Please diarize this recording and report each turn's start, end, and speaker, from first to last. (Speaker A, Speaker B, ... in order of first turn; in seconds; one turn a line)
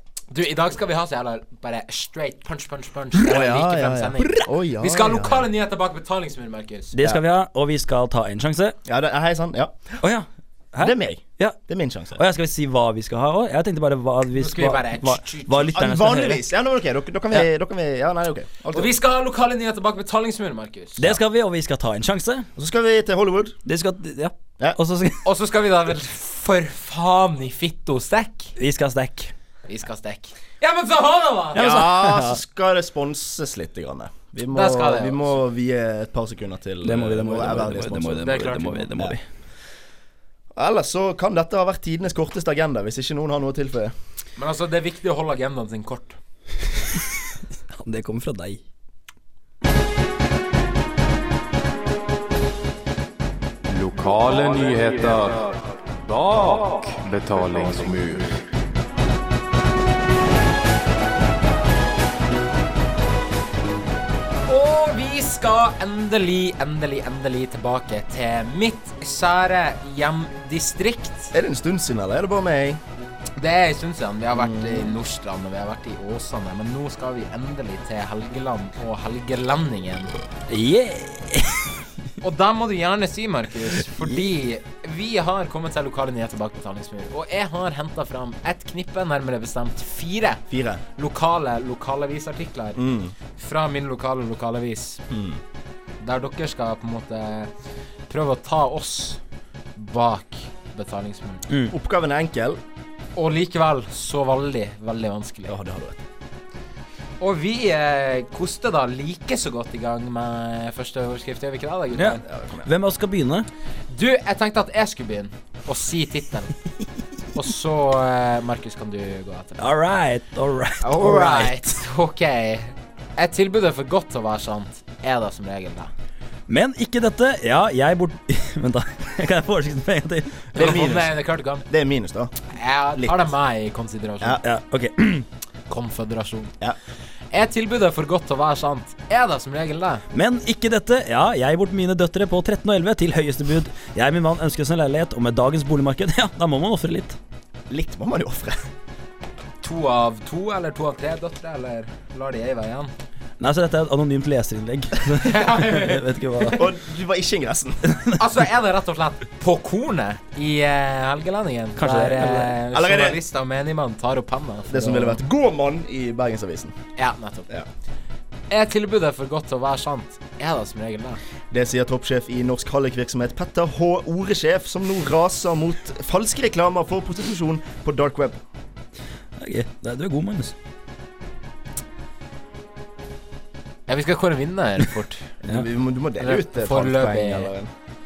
Speaker A: 0.3-7.0
Speaker B: 3.1-5.5
Speaker C: 6.9-8.8
Speaker B: 8.8-10.0
Speaker C: 10.0-11.6
Speaker B: 10.8-12.2
Speaker C: 12.2-16.4
Speaker A: 14.3-15.8
Speaker B: 15.8-18.9
Speaker A: 18.7-21.1
Speaker C: 21.0-22.5
Speaker B: 22.6-23.6
Speaker C: 23.7-25.2
Speaker A: 25.2-28.6
Speaker C: 28.6-29.3
Speaker A: 29.7-31.6
Speaker C: 31.5-32.4
Speaker B: 31.6-39.2
Speaker A: 34.5-35.4
Speaker C: 36.8-39.2
Speaker A: 38.2-38.9
Speaker B: 40.5-43.9
Speaker A: 44.4-46.2
Speaker C: 47.7-48.6
Speaker D: 53.7-58.4
Speaker A: 64.5-71.3
Speaker B: 71.3-72.8
Speaker A: 73.4-80.1
Speaker B: 74.3-75.0
Speaker C: 80.5-81.7
Speaker A: 82.2-90.4
Speaker B: 90.5-90.8
Speaker A: 91.0-92.8
Speaker B: 92.8-93.1
Speaker A: 93.3-95.0
Speaker B: 95.1-95.4
Speaker A: 96.0-97.5
Speaker A: 98.1-99.2
Speaker A: 99.8-101.4
Speaker B: 101.7-102.6
Speaker A: 103.2-105.6
Speaker B: 105.5-106.1
Speaker A: 107.2-112.2
Speaker C: 112.0-113.5
Speaker B: 112.2-112.7
Speaker A: 113.9-116.6
Speaker A: 117.3-119.7
Speaker C: 119.6-121.8
Speaker A: 120.8-125.9
Speaker C: 126.5-130.5
Speaker B: 130.5-131.2
Speaker A: 130.6-131.7
Speaker B: 131.7-133.3
Speaker A: 132.5-134.4
Speaker C: 134.4-135.3
Speaker A: 135.7-136.5
Speaker A: 137.3-140.1
Speaker C: 140.1-147.2
Speaker B: 147.7-148.7
Speaker A: 149.6-152.9
Speaker C: 153.4-156.6
Speaker A: 155.2-156.6
Speaker B: 156.6-157.8
Speaker C: 157.9-158.2
Speaker A: 158.2-165.2
Speaker C: 161.8-162.6
Speaker B: 162.7-163.2
Speaker B: 164.7-166.8
Speaker A: 167.0-167.5
Speaker A: 168.5-171.2
Speaker B: 171.5-178.4
Speaker C: 179.4-180.5
Speaker A: 183.9-185.4
Speaker B: 185.4-187.7
Speaker A: 186.2-187.5